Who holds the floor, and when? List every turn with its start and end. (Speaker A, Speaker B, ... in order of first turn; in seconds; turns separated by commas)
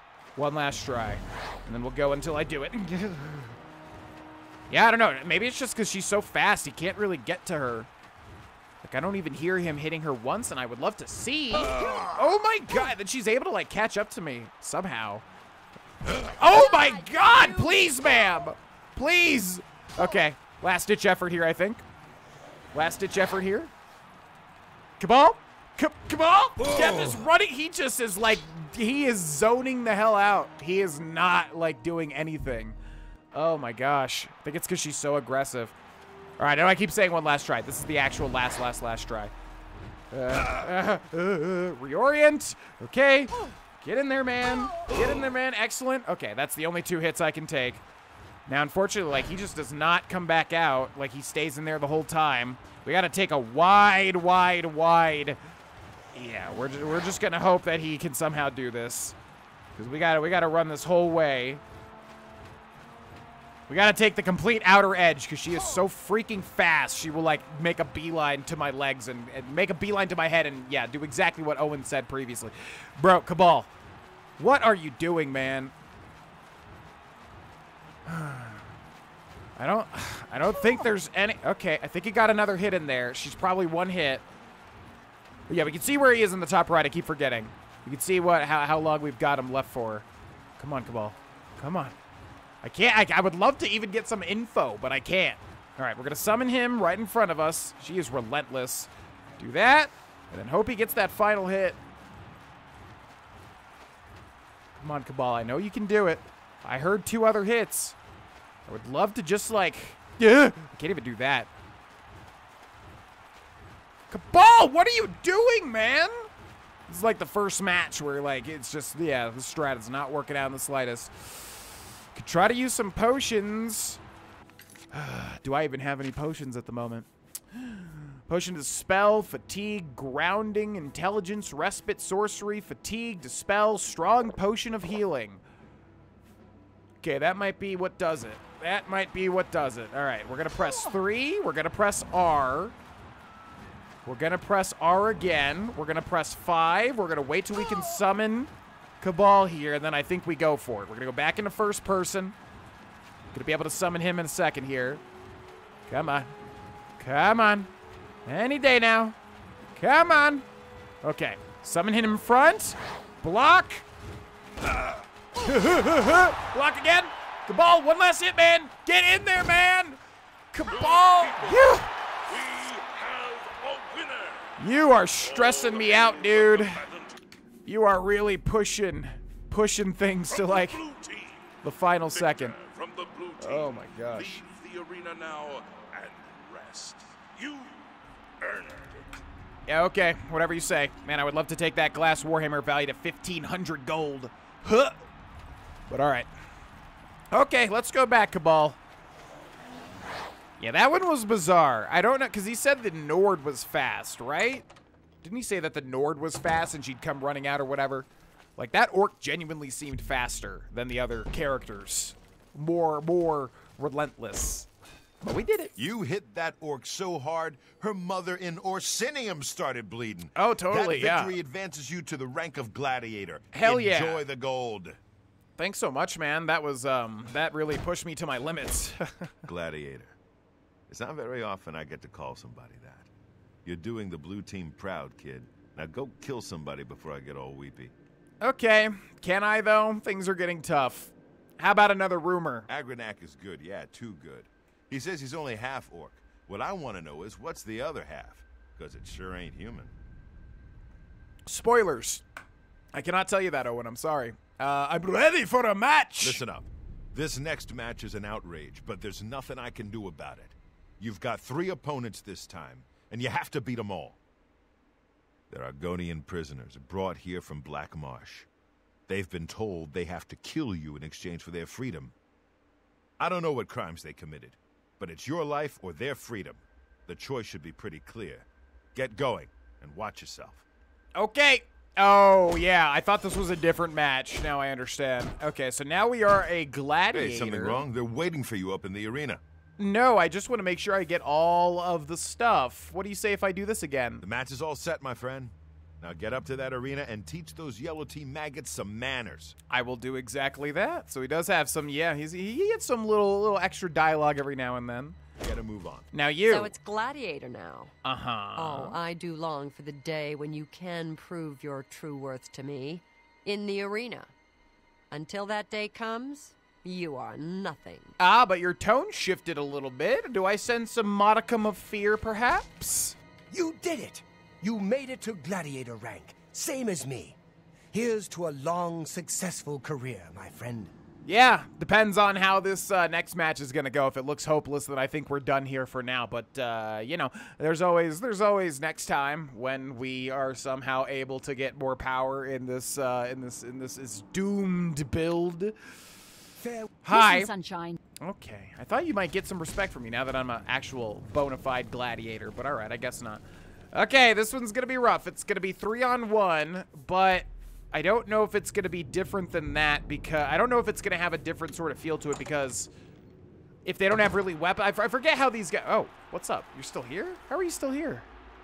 Speaker A: 0.3-3.6, Speaker A: 4.7-7.9, Speaker A: 8.8-15.2, Speaker A: 16.1-21.8, Speaker B: 16.4-18.0, Speaker A: 22.7-23.7, Speaker A: 25.0-32.8, Speaker A: 33.3-35.7, Speaker A: 36.4-39.3, Speaker A: 40.1-47.8, Speaker A: 48.5-55.4, Speaker A: 56.1-59.1, Speaker A: 59.8-61.6, Speaker A: 63.7-73.7, Speaker A: 74.4-75.7, Speaker A: 78.1-78.7, Speaker A: 79.6-84.2, Speaker A: 85.5-90.0, Speaker A: 90.6-91.9, Speaker A: 92.6-101.8, Speaker A: 104.8-108.0, Speaker A: 108.7-111.5, Speaker A: 114.1-116.3, Speaker A: 116.9-124.0, Speaker A: 124.9-135.4, Speaker A: 137.0-142.7, Speaker A: 144.0-152.3, Speaker A: 153.3-155.0, Speaker A: 155.9-156.3, Speaker A: 157.0-157.7, Speaker A: 158.2-159.2, Speaker A: 159.7-160.4, Speaker A: 161.0-163.8, Speaker A: 165.3-170.0, Speaker A: 170.5-171.9, Speaker C: 170.7-174.5, Speaker A: 174.6-176.8, Speaker C: 175.2-177.2, Speaker A: 177.7-180.8, Speaker C: 180.3-181.5, Speaker A: 181.6-182.6, Speaker C: 182.1-187.9, Speaker A: 183.4-184.4, Speaker C: 188.4-189.1, Speaker A: 189.7-195.0, Speaker A: 195.9-196.3, Speaker A: 197.3-198.8, Speaker A: 200.6-204.7, Speaker A: 205.2-214.7, Speaker A: 215.2-215.7, Speaker D: 215.8-225.0, Speaker A: 220.3-221.3, Speaker A: 223.5-224.2, Speaker A: 225.6-229.3, Speaker D: 229.4-230.2, Speaker D: 230.9-233.1, Speaker D: 233.6-237.9, Speaker A: 238.4-242.7, Speaker D: 242.7-249.9, Speaker A: 251.5-252.2, Speaker A: 252.9-256.4, Speaker D: 256.2-264.2, Speaker D: 265.5-268.5, Speaker D: 269.1-272.1, Speaker D: 273.2-280.6, Speaker A: 281.1-287.8, Speaker D: 287.1-289.4, Speaker A: 289.8-294.2, Speaker D: 294.2-299.6, Speaker A: 299.7-305.2, Speaker D: 305.4-306.1, Speaker A: 306.1-306.7, Speaker B: 306.5-307.9, Speaker A: 308.0-309.0, Speaker B: 308.6-314.3, Speaker B: 315.1-318.1, Speaker A: 318.2-323.1, Speaker E: 323.5-327.4, Speaker E: 327.9-330.9, Speaker A: 331.2-345.7, Speaker E: 346.6-346.9, Speaker A: 347.0-347.5, Speaker B: 347.1-348.0, Speaker A: 348.2-353.4, Speaker A: 353.9-362.9, Speaker A: 363.8-368.3